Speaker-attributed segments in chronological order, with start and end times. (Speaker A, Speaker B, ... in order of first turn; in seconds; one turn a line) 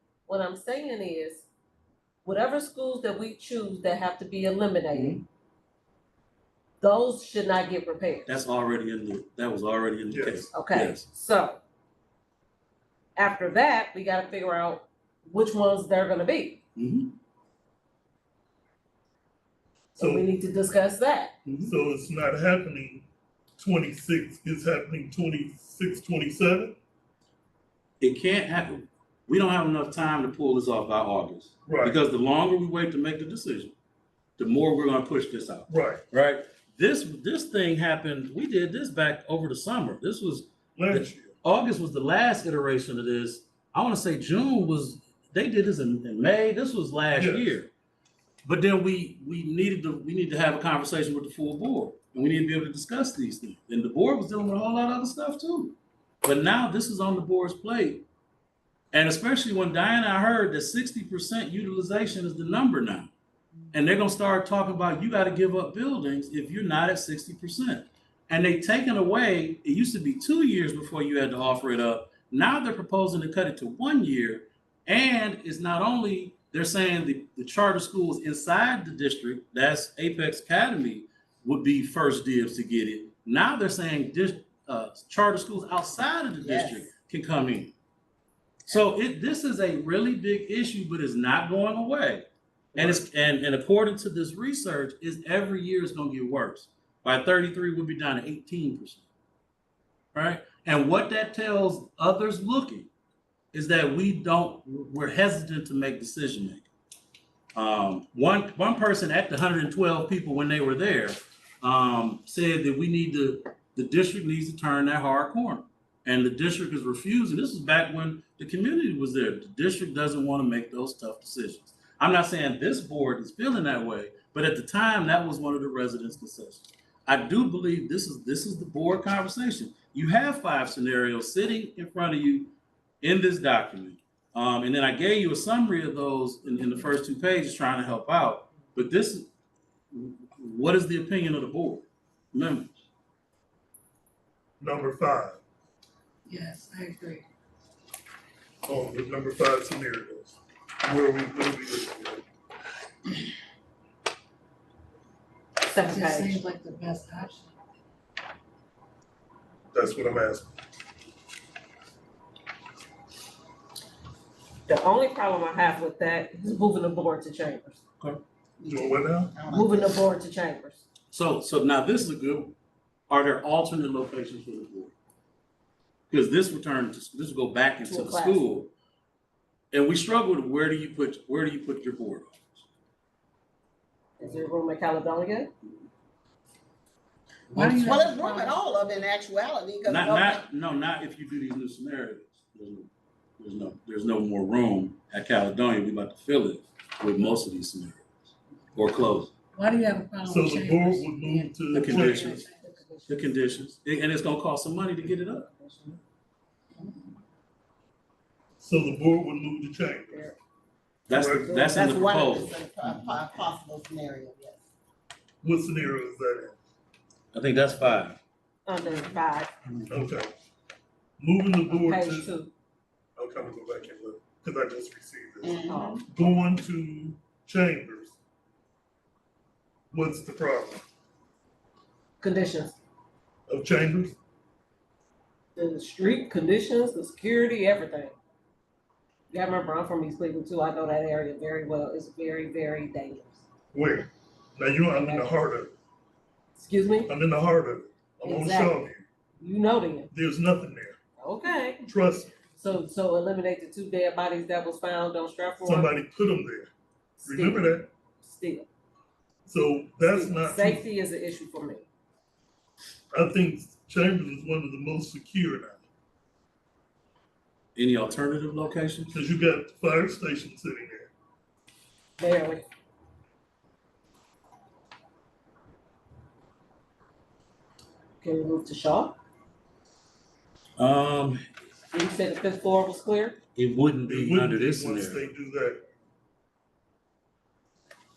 Speaker A: 0.3-1.5
Speaker A: 2.2-5.2
Speaker B: 4.9-5.2
Speaker A: 6.8-8.3
Speaker B: 8.3-11.1
Speaker C: 10.1-10.5
Speaker A: 10.5-11.6
Speaker A: 13.2-16.6
Speaker B: 16.8-17.1
Speaker A: 20.0-21.3
Speaker C: 20.0-20.3
Speaker B: 21.4-21.7
Speaker C: 21.6-23.1
Speaker C: 23.6-26.8
Speaker B: 28.0-33.7
Speaker C: 31.7-32.0
Speaker B: 34.4-47.7
Speaker C: 35.7-36.0
Speaker C: 40.8-41.3
Speaker C: 47.1-47.6
Speaker B: 48.5-58.0
Speaker B: 58.9-63.1
Speaker B: 63.7-87.7
Speaker D: 86.4-86.9
Speaker B: 88.7-99.0
Speaker B: 100.1-102.9
Speaker B: 103.5-106.7
Speaker B: 107.5-139.3
Speaker B: 139.9-142.8
Speaker C: 144.6-145.4
Speaker D: 146.3-147.0
Speaker E: 146.4-147.2
Speaker C: 148.7-152.2
Speaker A: 155.6-156.4
Speaker E: 155.9-157.5
Speaker D: 156.8-157.3
Speaker C: 159.7-160.5
Speaker A: 164.7-167.8
Speaker D: 168.6-170.1
Speaker C: 168.7-169.3
Speaker A: 169.5-170.8
Speaker B: 171.1-172.6
Speaker B: 173.1-174.9
Speaker B: 176.1-178.7
Speaker A: 177.9-178.4
Speaker B: 179.7-182.6
Speaker A: 184.2-185.5
Speaker B: 187.5-188.0
Speaker E: 187.6-188.6
Speaker D: 187.6-190.4
Speaker B: 189.8-198.1
Speaker B: 198.8-199.3
Speaker E: 199.6-202.5
Speaker D: 199.8-200.9
Speaker C: 200.3-202.3
Speaker B: 201.7-202.5
Speaker D: 201.9-202.4
Speaker A: 202.0-203.4
Speaker B: 203.1-205.5
Speaker A: 205.5-206.0
Speaker C: 208.6-210.3
Speaker A: 210.1-210.4
Speaker B: 211.1-212.6
Speaker C: 211.1-211.7
Speaker D: 211.5-214.7
Speaker C: 215.4-216.6
Speaker B: 217.3-218.2
Speaker A: 218.7-219.5
Speaker C: 219.9-220.3
Speaker C: 221.2-222.3
Speaker A: 221.7-222.5
Speaker C: 223.2-228.2
Speaker D: 225.4-226.1
Speaker A: 225.7-226.1
Speaker C: 229.9-230.8
Speaker A: 232.2-232.8
Speaker C: 233.5-234.2
Speaker A: 235.6-238.1
Speaker A: 239.3-243.4
Speaker C: 243.7-245.7
Speaker A: 244.9-245.4
Speaker A: 246.6-247.1
Speaker C: 247.1-249.1
Speaker A: 248.2-248.8
Speaker A: 249.4-250.1
Speaker C: 250.1-251.0
Speaker A: 251.2-251.8
Speaker C: 251.9-252.4
Speaker A: 252.6-255.9
Speaker C: 255.6-256.7
Speaker A: 257.2-258.7
Speaker C: 257.2-257.9
Speaker C: 259.5-260.8
Speaker A: 260.1-261.9
Speaker C: 263.1-265.8
Speaker B: 267.8-269.2
Speaker C: 269.1-271.1
Speaker A: 272.2-272.7
Speaker A: 278.2-279.2
Speaker B: 280.8-281.4
Speaker A: 281.9-283.4
Speaker B: 283.6-285.3
Speaker C: 284.1-285.8